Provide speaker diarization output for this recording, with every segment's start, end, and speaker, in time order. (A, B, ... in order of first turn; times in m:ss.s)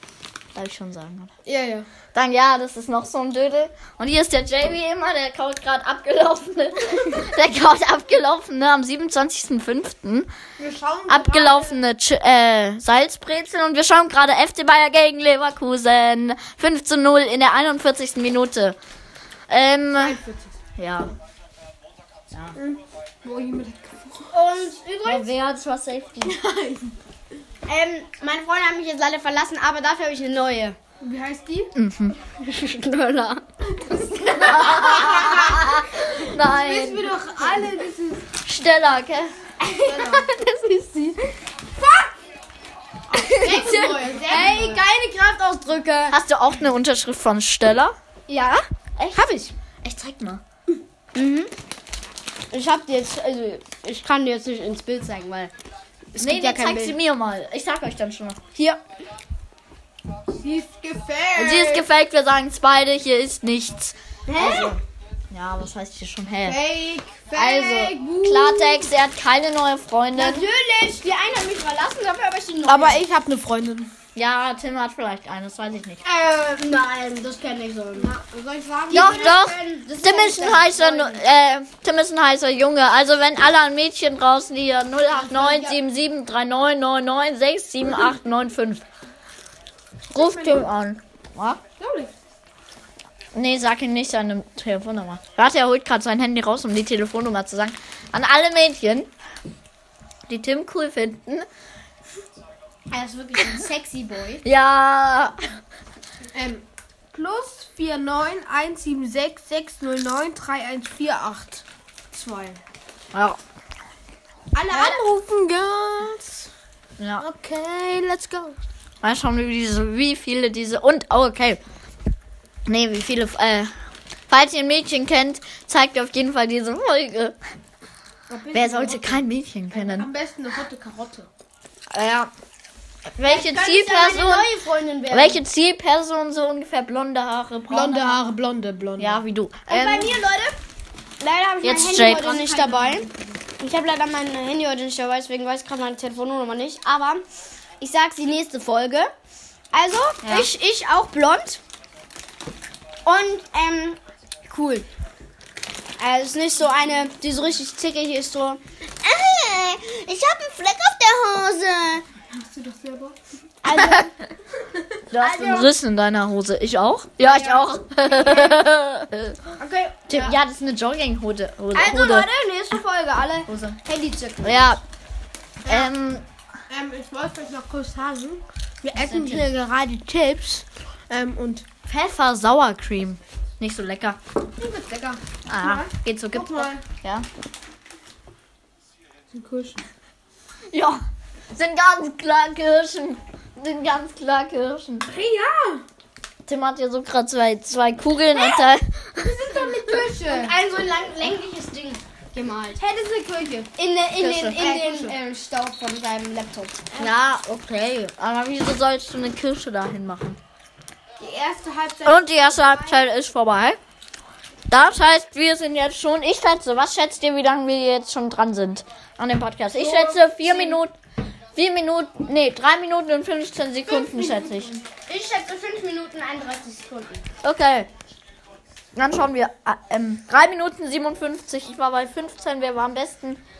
0:00.5-0:01.3 A
0:01.4-0:01.9 B
0:02.1-0:10.3 A
0:10.6-0:11.8 B
0:11.1-0:18.8 A
0:19.5-0:20.2 A
0:20.0-0:20.6 B
0:20.8-0:21.1 A
0:22.3-0:22.6 A
0:22.5-0:24.7 B
0:24.3-0:25.3 C
0:25.0-0:26.4 A
0:26.2-0:27.0 B
0:27.7-0:30.8 C
0:31.0-0:31.7 B
0:31.7-0:32.2 A
0:32.4-0:33.4 C
0:33.7-0:38.2 B
0:34.3-0:37.4 A
0:34.4-0:35.1 C
0:38.4-0:39.3 A
0:39.6-0:41.2 C
0:39.7-0:40.3 B
0:41.8-0:42.1 B
0:43.1-0:44.8 B
0:43.1-0:43.6 A
0:43.4-0:46.2 C
0:46.1-0:47.9 A
0:48.3-0:49.5 C
0:49.0-0:49.3 A
0:49.8-0:50.4 A
0:51.1-0:51.5 C
0:52.5-0:55.5 C
0:56.1-0:57.0 C
0:56.2-0:58.4 A
1:00.4-1:01.9 B
1:01.4-1:04.8 A
1:04.3-1:04.8 C
1:05.3-1:06.6 A
1:06.4-1:08.9 B
1:07.4-1:08.2 C
1:07.4-1:10.4 A
1:10.1-1:13.0 C
1:12.6-1:13.9 B
1:14.1-1:16.0 A
1:16.0-1:16.7 B
1:16.5-1:18.1 C
1:18.0-1:19.4 B
1:18.9-1:21.2 C
1:18.9-1:28.8 A
1:25.1-1:25.8 B
1:30.1-1:30.7 B
1:30.1-1:31.6 A
1:31.8-1:32.1 B
1:33.3-1:39.1 A
1:40.3-1:41.4 A
1:42.9-1:44.4 C
1:44.4-1:45.4 A
1:46.3-1:52.6 B
1:53.1-1:53.4 A
1:54.5-1:56.5 B
1:54.7-1:55.1 C
1:57.0-1:57.3 A
1:57.2-1:58.6 B
1:59.0-2:01.6 A
2:02.6-2:03.7 A
2:04.3-2:07.4 A
2:08.3-2:11.3 B
2:08.5-2:10.1 A
2:11.9-2:12.3 A
2:13.2-2:14.5 A
2:13.2-2:15.4 C
2:15.1-2:18.2 A
2:17.7-2:19.2 B
2:19.0-2:20.2 A
2:19.7-2:20.6 C
2:21.2-2:23.1 C
2:21.6-2:22.4 A
2:22.2-2:23.4 B
2:23.6-2:27.2 C
2:27.8-2:29.1 C
2:29.7-2:31.6 C
2:30.2-2:30.5 A
2:33.0-2:34.8 C
2:36.0-2:42.0 C
2:42.3-2:43.2 B
2:43.6-2:44.1 C
2:43.7-2:44.0 A
2:45.1-2:49.4 A
2:45.1-2:45.7 C
2:47.2-2:48.6 B
2:49.6-2:50.4 C
2:50.1-2:52.3 A
2:51.7-2:54.8 C
2:53.5-2:53.8 A
2:54.4-2:54.8 A
2:55.6-2:55.9 B
2:55.6-2:56.2 A
2:56.7-3:01.6 B
2:58.9-2:59.6 A
3:01.8-3:04.2 A
3:04.6-3:06.8 B
3:05.4-3:07.2 A
3:09.3-3:09.8 B
3:10.7-3:11.0 A
3:11.5-3:15.1 A
3:15.0-3:15.8 B
3:16.4-3:19.5 A
3:19.2-3:20.5 B
3:19.8-3:22.8 C
3:22.8-3:23.7 B
3:23.7-3:27.1 C
3:24.2-3:24.6 A
3:24.6-3:25.2 B
3:27.0-3:30.4 A
3:31.2-3:33.1 B
3:32.0-3:33.8 A
3:34.7-3:40.9 A
3:39.7-3:40.8 B
3:41.5-3:44.8 A
3:43.9-3:44.7 B
3:45.0-3:47.2 C
3:47.4-3:47.9 A
3:48.9-3:53.4 A